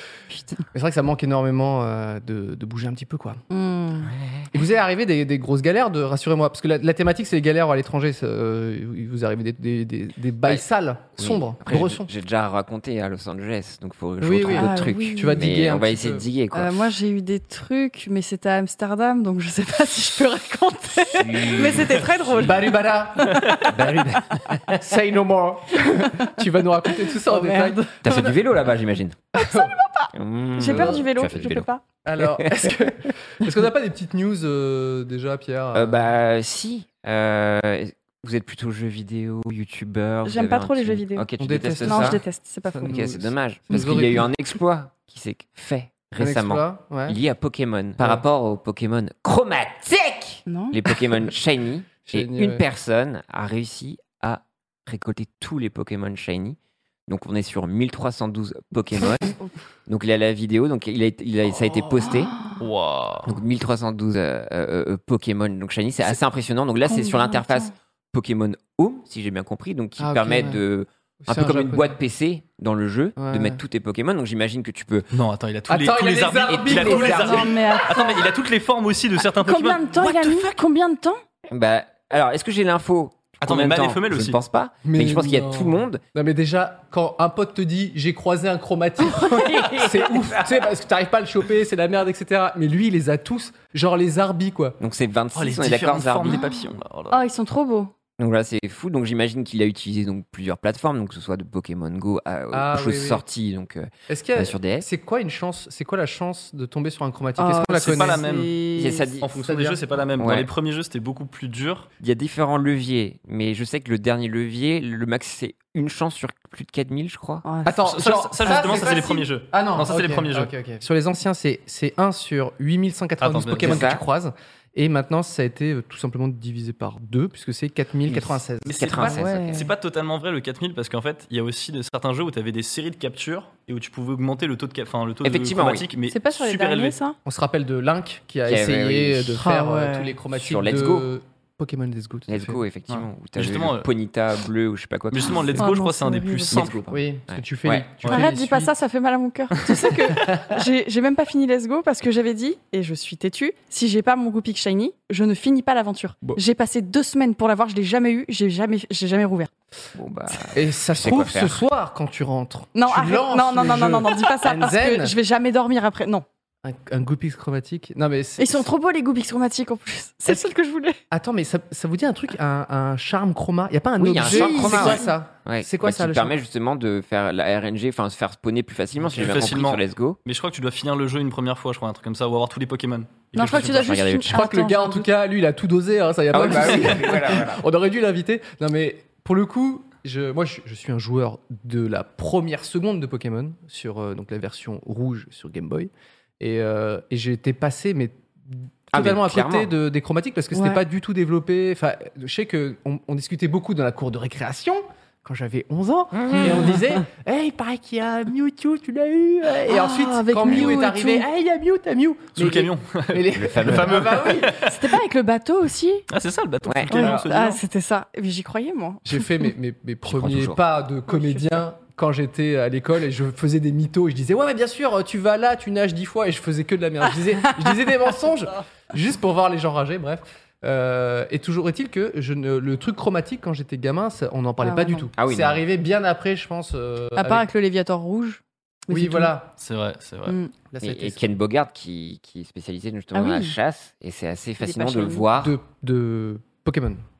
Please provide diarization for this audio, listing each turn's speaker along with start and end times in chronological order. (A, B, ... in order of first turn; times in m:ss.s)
0:00.7-0:03.4 A
0:03.5-0:04.1 B
0:04.0-0:04.5 C
0:04.5-0:12.1 A
0:11.2-0:16.8 C
0:14.2-0:16.2 A
0:14.4-0:15.5 B
0:16.5-0:23.7 B
0:21.1-0:22.7 C
0:22.3-0:23.4 A
0:23.3-0:23.6 D
0:23.6-0:24.8 C
0:24.7-0:28.4 A
0:27.0-0:27.9 B
0:28.0-0:29.2 C
0:29.4-0:31.8 B
0:29.4-0:29.7 A
0:30.1-0:31.6 C
0:30.6-0:31.0 A
0:32.0-0:36.0 A
0:32.2-0:32.9 C
0:35.7-0:42.2 C
0:40.2-0:41.3 B
0:41.4-0:44.3 A
0:41.8-0:43.0 B
0:42.8-1:02.3 C
0:46.2-0:47.2 A
0:50.5-0:50.8 B
0:52.0-0:52.6 A
1:02.6-1:03.3 D
1:03.2-1:15.1 C
1:06.8-1:07.7 B
1:10.0-1:10.6 A
1:11.2-1:12.0 A
1:13.2-1:13.6 A
1:15.1-1:20.5 D
1:15.7-1:17.6 A
1:16.5-1:17.5 C
1:17.1-1:18.2 B
1:19.4-1:21.2 B
1:21.5-1:26.0 C
1:23.4-1:24.4 D
1:24.8-1:34.8 A
1:29.0-1:30.2 B
1:29.7-1:30.6 C
1:34.8-1:36.4 C
1:35.3-1:37.2 D
1:37.1-1:37.9 B
1:38.2-1:44.9 C
1:42.5-1:43.2 A
1:44.1-1:48.2 A
1:47.4-1:49.1 B
1:47.8-1:48.5 D
1:48.8-1:49.4 C
1:49.2-1:51.9 D
1:49.4-1:49.8 A
1:50.2-1:50.5 C
1:52.0-1:57.4 C
1:57.4-1:57.8 B
1:57.6-2:09.1 A
1:57.8-2:00.5 D
2:03.2-2:04.0 D
2:03.6-2:04.0 C
2:08.1-2:09.6 C
2:08.6-2:17.0 D
2:09.0-2:09.7 B
2:15.2-2:15.9 C
2:16.1-2:17.2 B
2:17.2-2:22.6 A
2:18.4-2:19.4 C
2:19.3-2:20.1 B
2:20.3-2:21.1 C
2:22.3-2:25.7 C
2:22.9-2:23.9 D
2:25.1-2:26.7 D
2:25.5-2:26.7 B
2:26.5-2:27.9 C
2:26.9-2:28.7 A
2:28.1-2:39.5 B
2:39.9-2:41.6 C
2:40.5-2:45.1 A
2:42.7-2:46.2 B
2:46.6-2:48.6 A
2:48.4-2:51.0 B
2:51.1-2:56.3 A
2:54.0-3:00.2 C
2:54.2-2:55.1 B
2:59.1-3:03.7 D
3:03.3-3:05.1 B
3:03.3-3:04.4 C
3:04.3-3:34.6 A
3:06.3-3:07.6 C
3:18.9-3:19.7 C
3:20.5-3:20.8 B
3:26.1-3:26.8 C
3:29.7-3:31.3 B
3:30.4-3:30.7 C
3:32.3-3:34.8 D
3:33.3-3:34.2 C
3:34.6-3:36.0 B
3:36.1-3:37.6 D
3:36.6-3:36.9 C
3:36.9-3:39.3 B
3:36.9-3:37.2 A
3:39.0-3:57.5 A
3:40.0-3:40.6 C
3:41.1-3:41.6 B
3:54.6-3:55.0 B
3:55.2-3:55.6 C
3:57.2-3:59.3 B
3:58.9-3:59.5 A
3:59.6-4:00.4 D
4:00.3-4:00.5 B
4:00.7-4:01.3 A
4:00.8-4:05.6 C
4:03.1-4:03.6 B
4:04.6-4:05.2 B
4:05.4-4:07.0 A